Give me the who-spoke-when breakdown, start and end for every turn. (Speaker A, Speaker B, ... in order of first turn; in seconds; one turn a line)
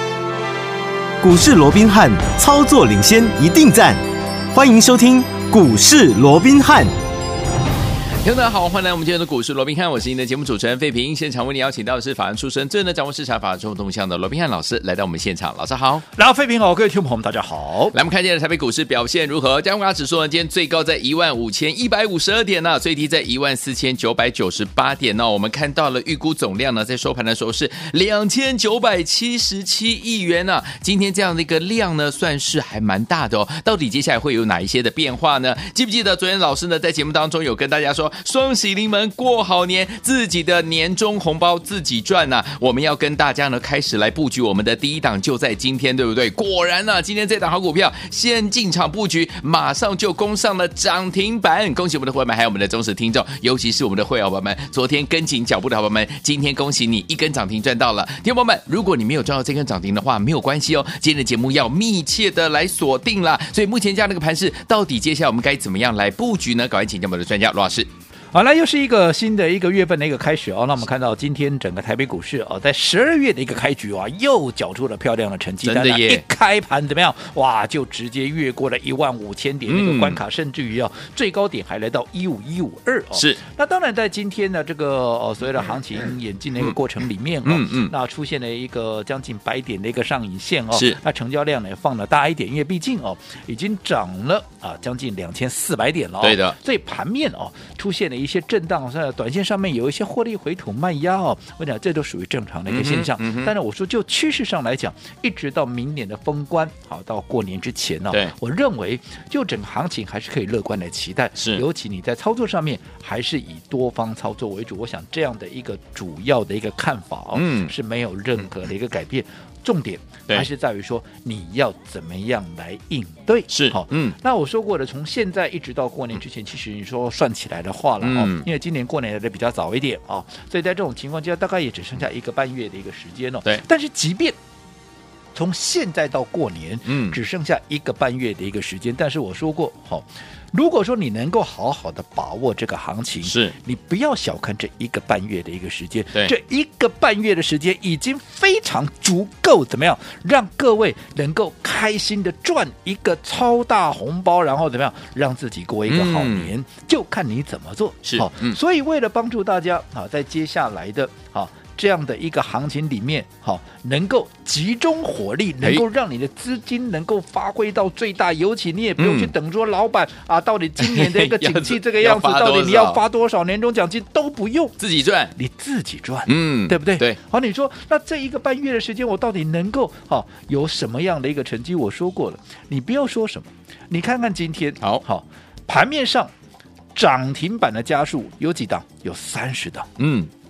Speaker A: 1.2-4.0
Speaker A: 4.5-6.9
Speaker B: 8.2-16.0
Speaker C: 16.2-17.9
Speaker B: 17.9-67.9
Speaker C: 68.3-134.4
Speaker B: 75.6-76.2
Speaker B: 79.7-80.2
Speaker B: 83.1-83.4
Speaker B: 87.5-87.9
Speaker B: 90.7-91.0
Speaker B: 96.2-96.5
Speaker B: 102.7-103.5
Speaker B: 111.4-111.6
Speaker B: 117.3-117.7
Speaker B: 123.5-124.2
Speaker B: 128.0-128.5
Speaker C: 135.3-174.8
Speaker B: 136.9-137.2
Speaker B: 143.3-143.5
Speaker B: 155.9-156.5
Speaker B: 158.0-158.6
Speaker B: 169.0-169.3
Speaker B: 170.8-173.0
Speaker B: 174.8-175.3
Speaker C: 175.4-186.3
Speaker B: 176.3-177.2
Speaker C: 186.9-189.9
Speaker B: 190.0-190.3